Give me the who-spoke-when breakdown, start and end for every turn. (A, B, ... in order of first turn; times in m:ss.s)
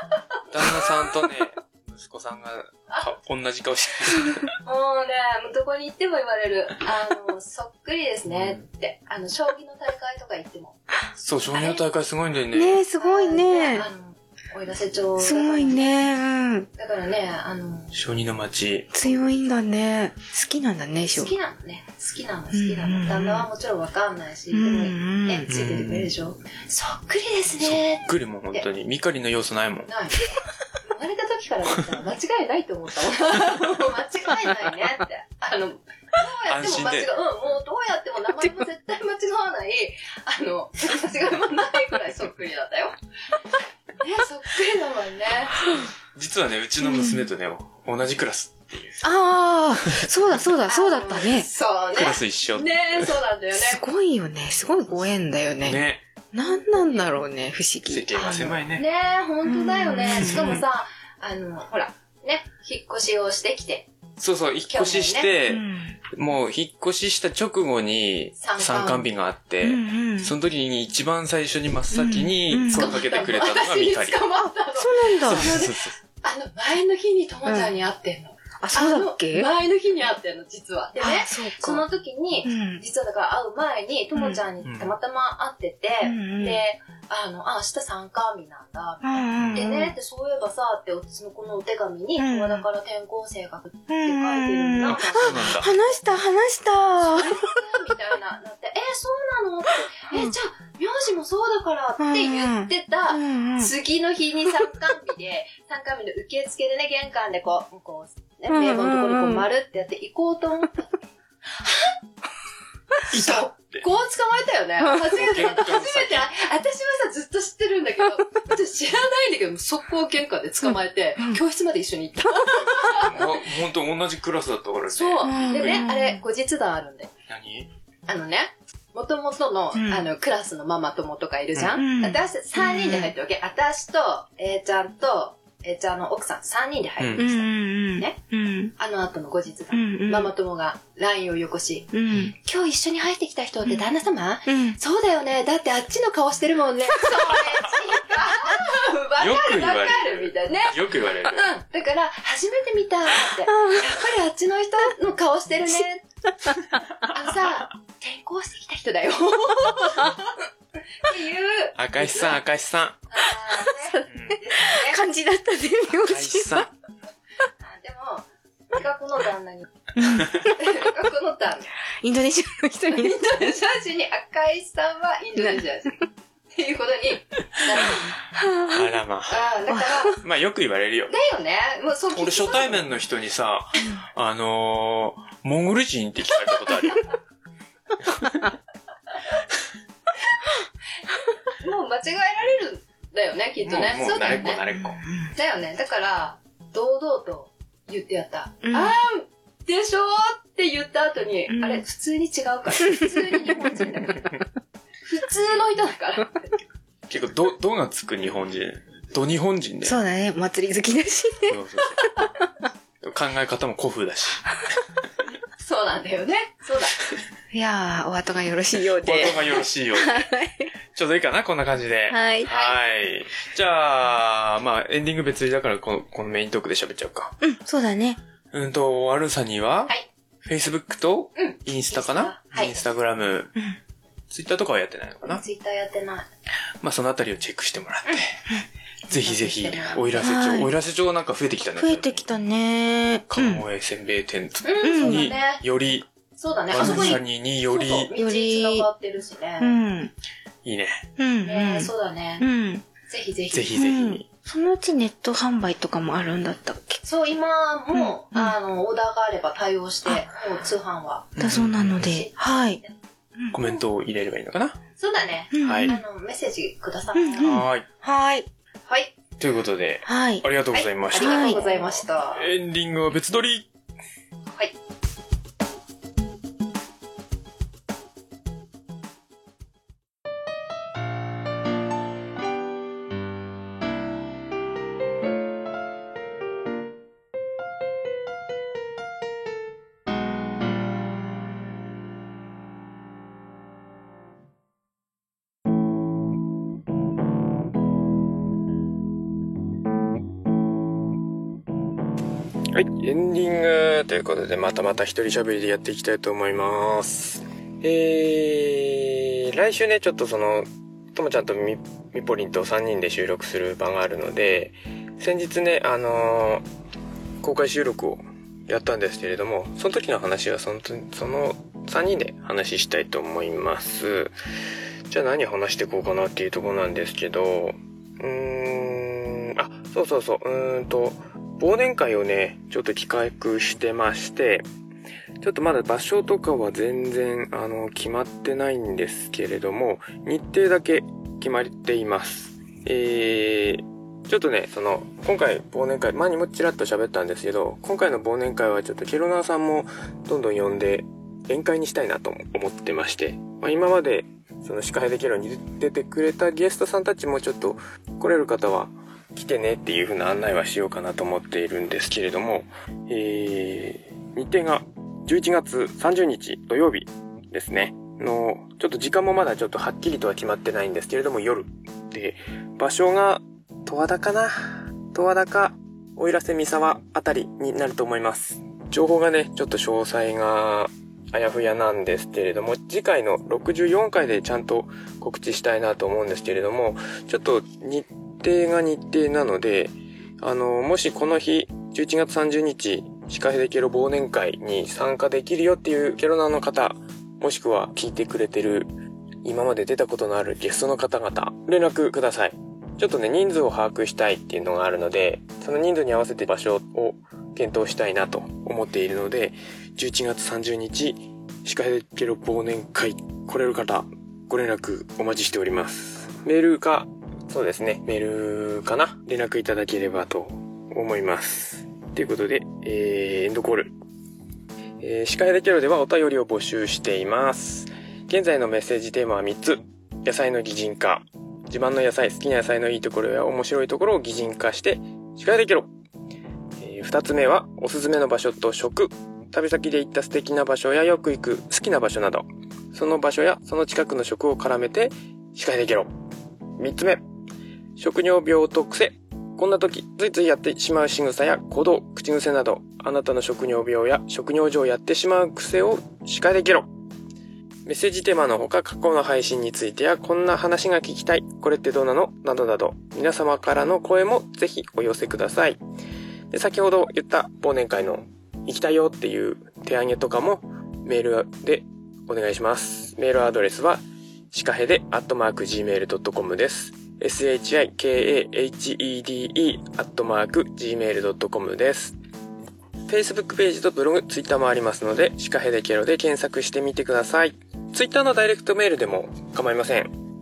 0:00.5-0:04.5 A
0:02.9-0:03.1 B
0:04.6-0:10.8 B
0:08.3-0:08.6 A
0:11.2-0:12.8 A
0:11.5-0:11.8 B
0:12.5-0:13.9 C
0:13.0-0:16.1 B
0:15.2-0:16.7 C
0:16.8-0:17.9 B
0:17.9-0:18.9 A
0:18.9-0:21.3 C
0:21.0-0:28.7 B
0:22.5-0:23.5 C
0:24.5-0:25.5 C
0:25.5-0:26.1 A
0:27.6-0:29.9 A
0:29.8-0:43.0 B
0:36.4-0:37.1 A
0:44.0-0:45.8 B
0:46.1-0:49.0 A
0:46.8-0:47.3 C
0:49.0-0:51.5 C
0:50.7-0:53.8 B
0:51.9-0:53.1 A
0:53.5-0:58.6 C
0:55.6-0:56.0 A
0:56.8-0:57.0 B
0:57.9-0:58.8 A
0:58.2-1:03.9 B
0:59.4-1:00.6 C
1:00.1-1:00.6 A
1:04.2-1:14.2 A
1:04.7-1:05.3 B
1:05.5-1:06.0 C
1:08.4-1:09.1 B
1:09.6-1:10.3 C
1:11.9-1:12.9 C
1:12.7-1:35.9 B
1:14.7-1:15.6 C
1:15.2-1:16.0 A
1:17.4-1:17.7 C
1:18.6-1:19.5 C
1:21.0-1:21.8 C
1:22.4-1:22.8 C
1:24.1-1:24.4 C
1:24.6-1:24.9 A
1:26.0-1:26.6 C
1:29.0-1:29.9 C
1:29.3-1:29.6 A
1:32.2-1:32.7 C
1:33.9-1:37.4 C
1:34.8-1:35.7 A
1:37.0-1:50.9 B
1:42.0-1:43.7 C
1:48.5-1:49.4 C
1:51.5-1:51.9 B
1:53.1-1:53.9 A
1:53.1-2:03.4 B
1:55.0-1:56.3 A
2:02.5-2:05.8 A
2:04.9-2:07.1 B
2:05.2-2:06.2 C
2:07.3-2:07.7 A
2:08.1-2:18.2 B
2:09.7-2:10.1 C
2:11.6-2:11.8 A
2:11.8-2:13.1 C
2:17.2-2:18.7 C
2:18.8-2:36.0 B
2:19.7-2:20.3 C
2:21.9-2:22.3 C
2:24.5-2:24.8 C
2:29.2-2:31.5 A
2:33.5-2:33.8 C
2:37.0-2:40.4 B
2:41.0-2:42.4 B
2:41.8-2:43.0 A
2:43.1-2:45.0 B
2:43.6-2:46.7 C
2:44.1-2:44.4 A
2:46.0-2:46.7 A
2:47.6-2:51.7 B
2:50.0-2:50.7 C
2:52.0-2:53.5 C
2:52.9-2:58.1 B
2:55.4-2:55.6 C
2:58.4-2:58.9 C
2:58.7-2:59.4 A
2:59.3-3:00.2 B
2:59.7-3:00.1 C
3:00.1-3:01.1 A
3:01.1-3:02.9 B
3:02.1-3:07.1 A
3:08.0-3:08.4 A
3:11.6-3:14.6 B
3:13.6-3:15.0 A
3:14.6-3:15.3 C
3:15.3-3:24.4 B
3:18.6-3:18.9 C
3:21.5-3:21.8 C
3:25.0-3:26.5 B
3:27.1-3:30.0 A
3:29.8-3:32.3 C
3:31.5-3:32.3 A
3:33.0-3:34.7 A
3:35.6-3:37.0 B
3:37.5-3:40.7 C
3:39.0-3:40.3 A
3:40.9-3:47.4 A
3:42.1-3:42.5 C
3:42.4-3:42.8 B
3:47.4-3:48.2 C
3:48.5-3:53.5 A
3:51.4-3:52.7 B
3:54.3-3:55.4 A
3:55.2-3:56.2 B
3:56.8-3:58.4 A
3:59.1-4:02.2 A
3:59.1-4:00.1 B
4:00.2-4:00.7 C
4:01.6-4:03.6 C
4:03.3-4:06.1 A
4:04.6-4:05.6 B
4:04.8-4:05.4 C
4:06.4-4:09.7 B
4:06.7-4:08.1 A
4:06.8-4:07.2 C
4:08.2-4:08.9 C
4:09.6-4:10.1 C
4:10.6-4:11.0 A
4:11.2-4:12.8 C
4:11.4-4:12.4 B
4:13.1-4:13.8 B
4:13.5-4:14.2 A
4:13.8-4:17.0 C
4:17.0-4:21.4 B
4:17.9-4:18.6 C
4:21.4-4:22.1 A
4:21.4-4:22.8 C
4:22.0-4:22.9 B
4:23.4-4:23.8 C
4:23.5-4:24.8 A
4:25.0-4:27.6 B
4:25.5-4:26.0 C
4:25.6-4:26.0 A
4:27.1-4:28.5 C
4:27.4-4:27.8 A
4:29.4-4:33.7 A
4:30.0-4:30.4 C
4:30.7-4:32.5 B
4:31.1-4:31.6 C
5:02.7-5:16.6 D
5:17.4-5:24.3 D
5:25.1-5:34.6 D
5:35.4-6:38.9 D
6:39.4-7:03.9 D
7:05.0-7:15.9 D
7:16.8-7:26.1 D
7:26.8-7:27.2 D
7:28.0-7:36.9 D
7:37.8-7:45.8 D
7:46.5-8:02.2 D
8:03.1-8:10.1 D